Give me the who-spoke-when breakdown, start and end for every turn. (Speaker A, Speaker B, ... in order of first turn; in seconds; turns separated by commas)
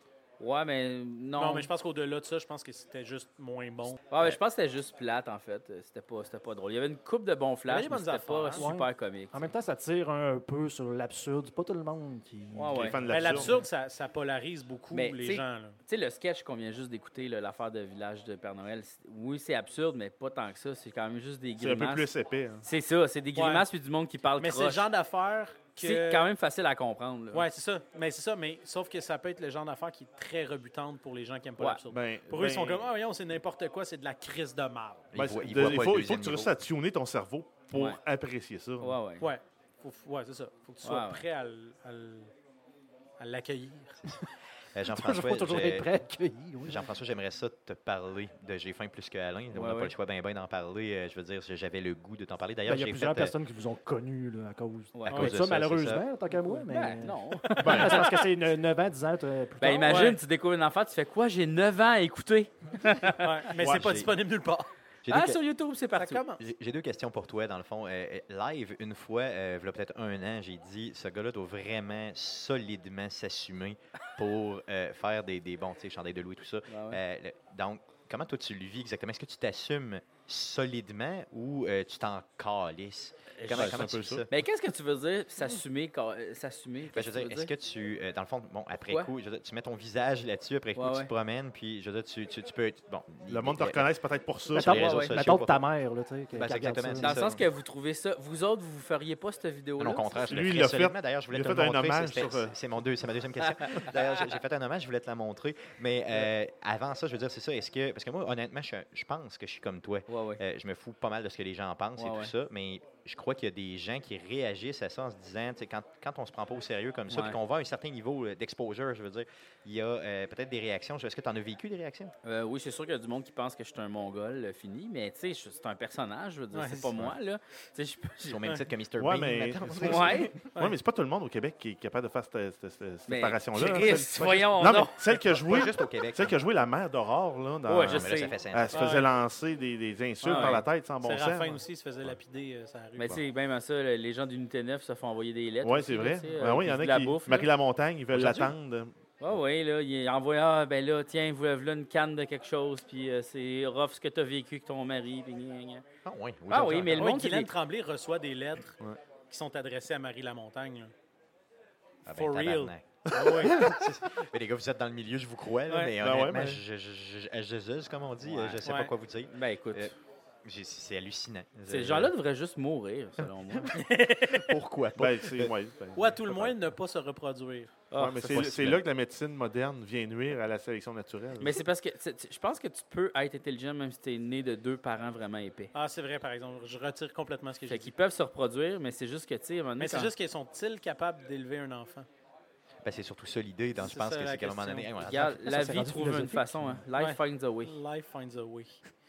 Speaker A: 0.4-1.7, Speaker B: 1.4-4.0, Speaker A: 4.1-9.5, Speaker B: 7.7-8.7, Speaker C: 8.6-13.6, Speaker A: 12.5-13.0, Speaker D: 12.7-13.5, Speaker B: 13.1-15.8, Speaker A: 14.9-22.1, Speaker D: 21.6-22.6, Speaker A: 22.6-24.9, Speaker B: 23.4-23.6, Speaker B: 24.4-26.3, Speaker A: 25.8-27.4, Speaker B: 27.3-35.1, Speaker D: 31.9-32.9, Speaker E: 35.1-36.5, Speaker D: 35.1-39.0, Speaker A: 37.7-38.0, Speaker A: 38.8-39.3, Speaker B: 39.2-42.3, Speaker A: 40.8-41.2, Speaker B: 43.2-44.2, Speaker E: 44.7-45.9, Speaker C: 44.9-46.9, Speaker E: 46.6-53.3, Speaker A: 49.5-49.9, Speaker C: 52.6-60.1, Speaker A: 54.9-55.4, Speaker E: 55.0-56.0, Speaker A: 56.7-58.2, Speaker D: 57.6-58.0, Speaker A: 59.6-63.4, Speaker B: 59.9-60.2, Speaker B: 63.2-64.7, Speaker E: 63.6-64.1, Speaker E: 65.0-65.4, Speaker A: 65.1-66.2, Speaker B: 66.0-66.4, Speaker E: 66.4-84.3, Speaker A: 76.7-77.0, Speaker A: 83.3-87.5, Speaker D: 83.5-84.2, Speaker E: 86.9-93.8, Speaker A: 90.8-91.1, Speaker D: 93.3-94.8, Speaker E: 94.5-95.6, Speaker C: 94.5-97.3, Speaker A: 94.7-95.2, Speaker E: 96.3-97.4, Speaker A: 97.0-100.3, Speaker E: 99.8-122.1, Speaker D: 100.3-102.5, Speaker A: 103.4-104.0, Speaker A: 110.1-110.4, Speaker A: 112.0-112.3, Speaker A: 117.1-117.4, Speaker A: 122.2-128.4, Speaker B: 126.5-126.9, Speaker E: 128.2-130.4, Speaker D: 129.0-141.6, Speaker A: 129.8-130.3, Speaker A: 133.1-135.0, Speaker E: 135.4-136.3, Speaker A: 137.7-138.3, Speaker E: 137.9-138.9, Speaker B: 138.7-139.1, Speaker A: 140.2-140.6, Speaker B: 140.3-143.2, Speaker A: 143.0-147.5, Speaker D: 145.6-148.9, Speaker A: 149.2-155.8, Speaker E: 156.0-157.1, Speaker A: 156.5-157.5, Speaker B: 157.0-158.8, Speaker B: 159.3-160.9, Speaker E: 162.1-169.9, Speaker B: 162.1-163.7, Speaker D: 163.1-163.7, Speaker D: 166.0-166.6, Speaker A: 168.2-168.6, Speaker B: 168.6-168.9, Speaker A: 169.3-169.9, Speaker E: 170.4-172.1, Speaker A: 171.7-173.8, Speaker B: 173.7-174.5, Speaker E: 174.3-175.5, Speaker D: 174.9-176.5, Speaker B: 175.9-177.8, Speaker A: 177.9-178.5, Speaker D: 177.9-181.6, Speaker E: 178.3-178.8, Speaker A: 181.4-185.7, Speaker B: 185.7-187.9, Speaker A: 187.7-190.1, Speaker B: 189.8-192.1, Speaker E: 192.8-195.8, Speaker B: 193.8-194.9, Speaker A: 195.0-197.8, Speaker C: 195.4-196.8, Speaker B: 196.9-198.8